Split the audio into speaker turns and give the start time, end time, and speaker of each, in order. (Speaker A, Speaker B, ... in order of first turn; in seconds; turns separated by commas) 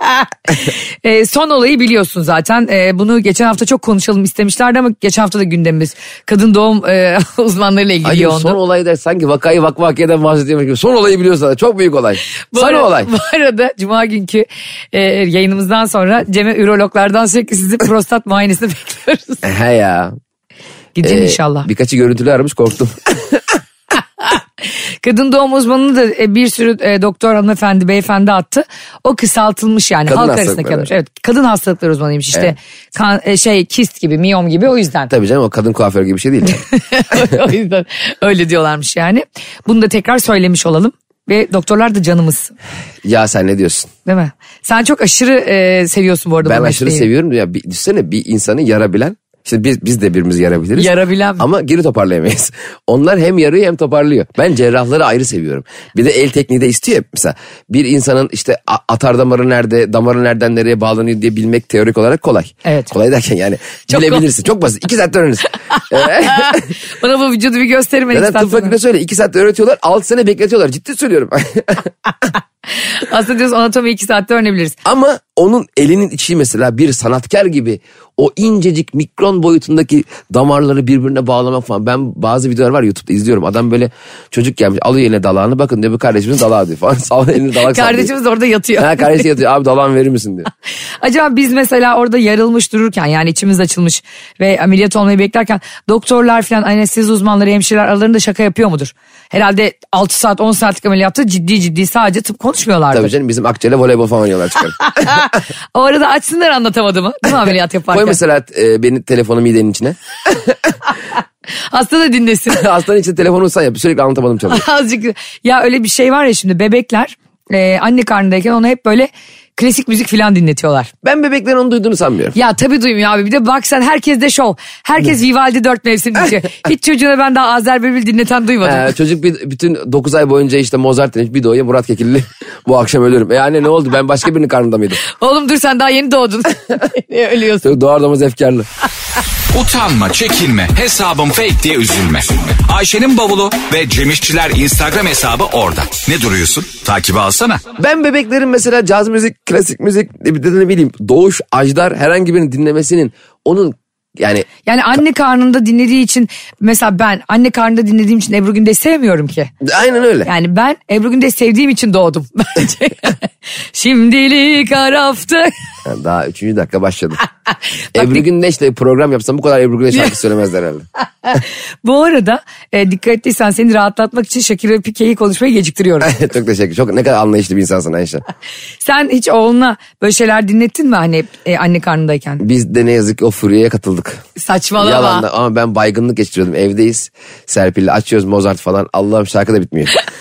Speaker A: 0.2-8.6, Speaker B: 8.0-13.1, Speaker A: 12.5-19.4, Speaker B: 19.4-20.1, Speaker A: 20.9-21.7, Speaker B: 21.0-23.6, Speaker A: 25.0-35.1, Speaker B: 30.1-30.9, Speaker B: 35.1-37.2, Speaker A: 36.5-42.5, Speaker B: 43.0-43.9, Speaker A: 44.0-47.1, Speaker B: 46.4-66.7, Speaker A: 50.7-51.5, Speaker A: 62.6-62.9, Speaker A: 63.9-64.2, Speaker A: 65.7-68.8, Speaker B: 68.1-71.9, Speaker A: 72.8-74.8, Speaker B: 74.8-88.1, Speaker A: 87.6-89.2, Speaker B: 88.8-90.5, Speaker A: 91.0-103.1, Speaker B: 102.9-105.3, Speaker A: 104.9-108.2, Speaker B: 107.9-110.6, Speaker A: 111.6-112.6, Speaker B: 112.5-114.7, Speaker A: 114.5-120.9, Speaker B: 121.0-122.4, Speaker A: 122.3-128.9, Speaker B: 128.6-135.0, Speaker A: 135.0-137.7, Speaker B: 137.6-138.7, Speaker C: 139.5-147.6, Speaker B: 147.8-154.5, Speaker A: 154.7-159.5, Speaker B: 159.6-160.3, Speaker A: 160.2-165.5, Speaker B: 165.8-167.2, Speaker A: 167.9-168.2, Speaker B: 167.9-170.9, Speaker A: 171.2-176.1, Speaker B: 176.0-178.2, Speaker A: 178.8-182.4, Speaker B: 182.4-184.2, Speaker A: 184.3-185.2, Speaker B: 184.8-189.9